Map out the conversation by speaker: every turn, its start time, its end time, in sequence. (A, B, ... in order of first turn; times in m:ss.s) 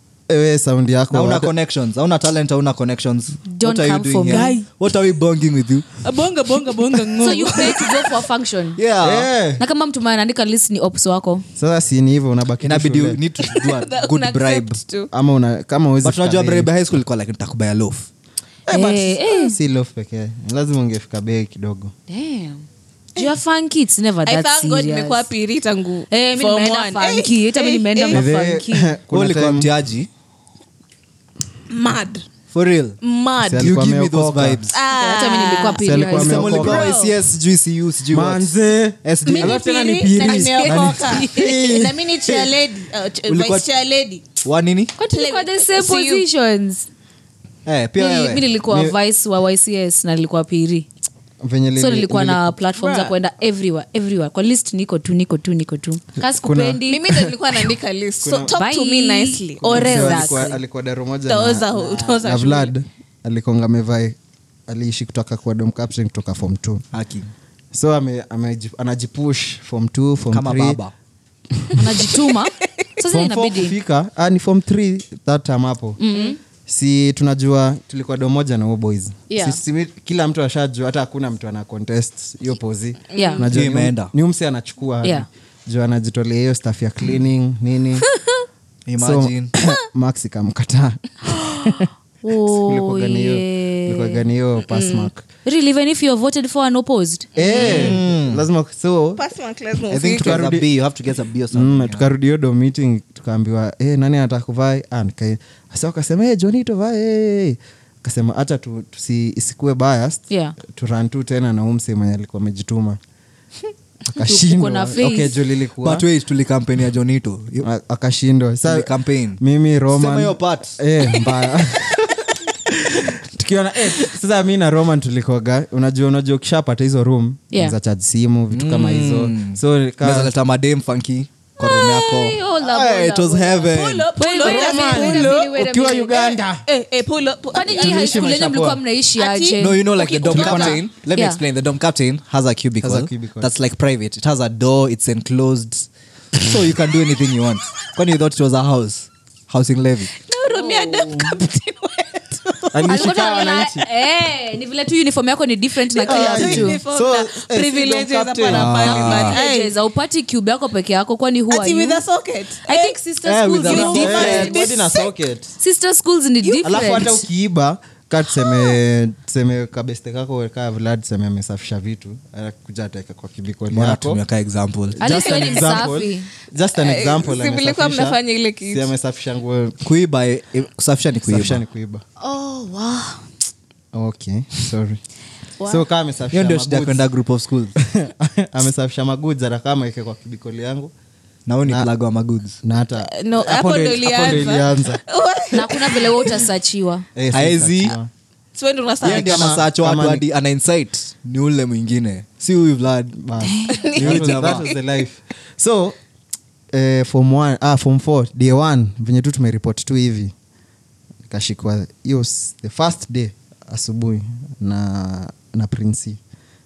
0:00.3-0:01.5 A
0:01.1-0:05.9 B
0:03.5-0:04.6 C
0:04.3-0:04.6 D
0:06.0-0:08.1 D
0:07.2-0:08.8 C
0:08.8-0:09.3 B
0:09.0-0:09.6 A
0:09.6-0:11.4 C
0:11.6-0:13.2 A
0:12.6-0:14.8 B
0:13.4-0:15.1 D
0:15.1-0:16.7 A
0:16.0-0:18.1 B
0:18.7-0:21.9 A
0:18.7-0:19.6 C
0:22.1-0:22.6 C
0:23.2-0:25.3 C
0:24.2-0:28.2 D
0:26.1-0:28.9 C
0:28.1-0:29.7 A
0:29.1-0:30.1 B
0:31.7-0:32.2 D
0:32.5-0:33.0 B
0:33.0-0:33.7 D
0:33.4-0:34.6 A
0:33.6-0:34.7 B
0:34.7-0:35.9 D
0:34.9-0:36.7 C
0:35.8-0:37.0 A
0:36.1-0:38.5 B
0:36.4-0:37.1 D
0:38.1-0:42.5 A
0:39.0-0:39.6 B
0:39.3-0:44.2 D
0:40.1-0:41.6 C
0:43.3-0:43.7 B
0:44.4-0:44.9 B
0:45.0-0:46.9 C
0:45.1-0:46.2 D
0:47.6-0:48.4 B
0:48.0-0:50.9 C
0:48.7-0:48.9 A
0:51.4-0:52.6 A
0:51.8-0:57.1 C
0:52.8-0:53.1 D
0:56.2-0:57.6 A
0:56.9-1:00.5 D
0:58.2-0:58.5 A
0:58.5-1:00.6 C
0:59.6-1:06.8 A
1:01.3-1:02.7 D
1:06.9-1:07.3 B
1:07.7-1:10.8 A
1:10.3-1:10.9 B
1:11.7-1:13.8 C
1:13.1-1:16.0 A
1:16.0-1:16.4 C
1:16.6-1:28.1 A
1:19.3-1:19.6 C
1:23.1-1:23.5 D
1:23.1-1:23.4 C
1:23.5-1:24.1 B
1:28.9-1:29.5 B
1:29.0-1:31.9 A
1:31.6-1:34.2 C
1:32.4-1:35.2 A
1:34.7-1:35.1 D
1:35.4-1:37.3 C
1:37.4-1:38.0 D
1:37.4-1:39.2 A
1:37.6-1:38.4 B
1:39.2-1:40.4 D
1:39.9-1:42.1 B
1:40.2-1:40.7 A
1:41.5-1:53.0 A
1:50.3-1:50.5 C
1:54.1-1:56.0 A
1:54.2-1:55.4 C
1:55.8-1:57.7 B
1:57.6-2:10.3 A
1:58.6-2:00.8 B
2:07.5-2:07.8 C
2:08.5-2:14.1 B
2:11.6-2:16.4 C
2:13.6-2:15.5 D
2:14.4-2:16.6 A
2:16.6-2:18.3 D
2:17.5-2:20.0 C
2:17.6-2:18.8 A
2:19.2-2:20.8 D
2:19.6-2:30.1 B
2:20.3-2:20.8 A
2:20.5-2:21.4 C
2:22.8-2:23.5 A
2:30.2-2:33.4 D
2:30.5-2:31.4 C
2:32.7-2:33.8 A
2:32.8-2:36.8 C
2:35.9-2:39.7 D
2:36.0-2:39.3 A
2:38.5-2:39.4 B
2:38.9-2:42.0 C
2:41.5-2:43.0 D
2:42.6-2:44.7 C
2:43.2-2:44.6 B
2:43.6-2:45.1 D
2:43.6-2:45.5 A
2:45.6-2:47.2 C
2:46.4-2:47.1 D
2:46.6-2:54.2 A
2:53.7-2:55.0 B
2:54.9-2:59.8 A
2:55.0-2:56.3 C
2:55.3-2:55.6 D
2:56.8-2:58.9 D
2:59.8-3:01.6 B
3:01.2-3:02.0 A
3:02.2-3:03.2 C
3:03.9-3:05.0 A
3:05.6-3:05.8 D
3:05.6-3:07.0 A
3:06.3-3:07.7 B
3:07.8-3:10.9 A
3:11.5-3:12.6 B
3:12.6-3:15.0 A
3:13.0-3:16.4 D
3:15.5-3:17.0 C
3:17.2-3:18.1 A
3:17.3-3:18.0 B
3:18.5-3:19.5 D
3:19.0-3:20.2 A
3:19.0-3:23.2 B
3:23.2-3:26.0 A
3:23.4-3:23.8 C
3:23.7-3:24.8 D
3:24.0-3:24.7 B
3:26.7-3:30.3 A
3:31.3-3:36.2 A